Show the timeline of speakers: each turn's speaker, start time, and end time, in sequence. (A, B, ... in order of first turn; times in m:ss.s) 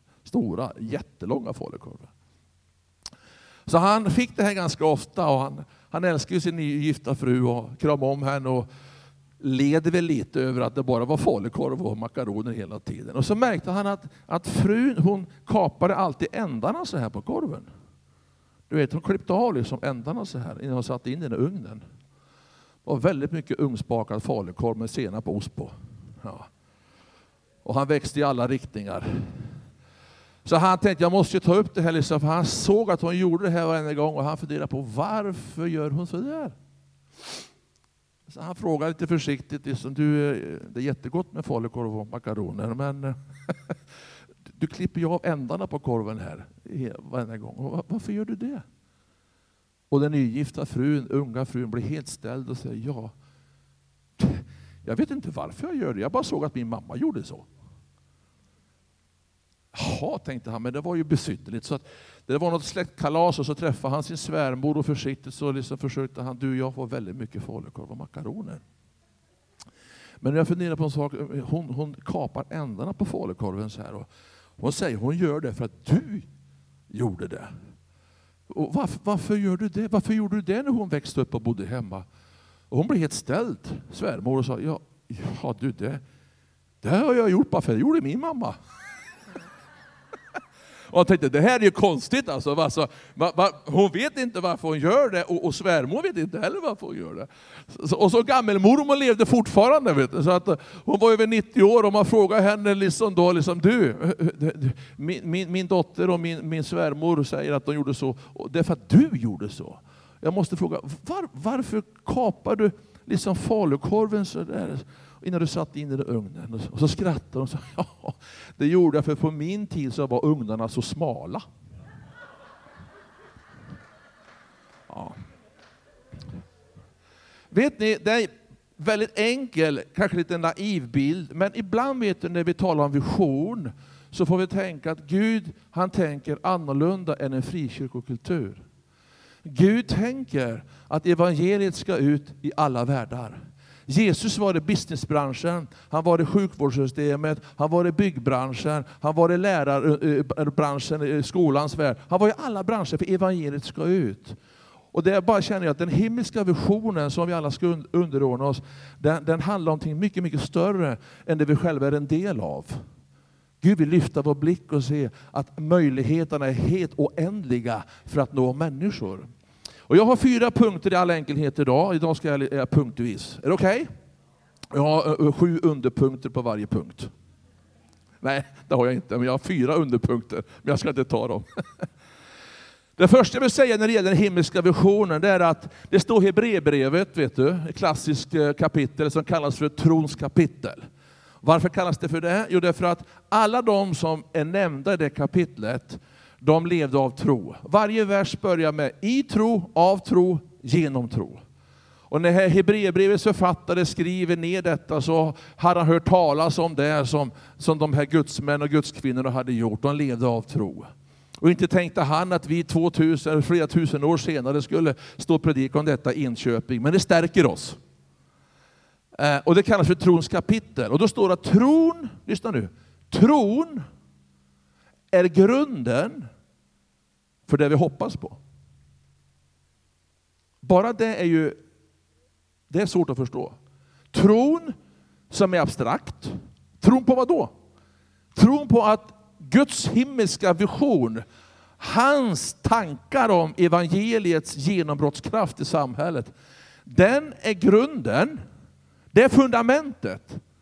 0:00.2-0:02.1 A
0:03.7-0:08.7 A
0:09.4-0:17.7 A
0:18.7-0:21.8 A
0:22.8-0:26.5 A
0:27.6-0:29.3 A
0:30.4-0:36.6 A
0:38.3-0:43.7 A
0:44.5-0:48.6 A
0:49.9-0:53.1 A
0:54.2-0:57.5 A
0:59.7-1:08.6 A
1:10.2-1:16.3 A
1:16.9-1:17.5 A
1:18.5-1:22.0 A
1:22.7-1:26.0 A
1:26.8-1:28.6 A
1:30.9-2:01.4 A
2:04.9-2:05.2 A
2:07.5-2:18.6 A
2:19.4-2:34.4 A
2:34.9-2:42.8 A
2:43.6-2:49.3 A
2:49.9-2:53.9 A
2:54.7-2:57.1 A
2:58.2-3:01.4 A
3:03.0-3:10.8 A
3:11.4-3:21.4 A
3:22.1-3:30.9 A
3:31.4-3:37.8 A
3:39.2-3:43.8 A
3:45.1-3:46.3 A
3:47.5-3:48.4 A
3:50.6-3:51.6 A
3:52.7-3:53.6 A
3:54.1-3:54.8 A
3:55.3-3:57.5 A
3:58.4-4:01.2 A
4:01.8-4:06.3 A
4:06.9-4:08.4 A
4:09.1-4:10.4 A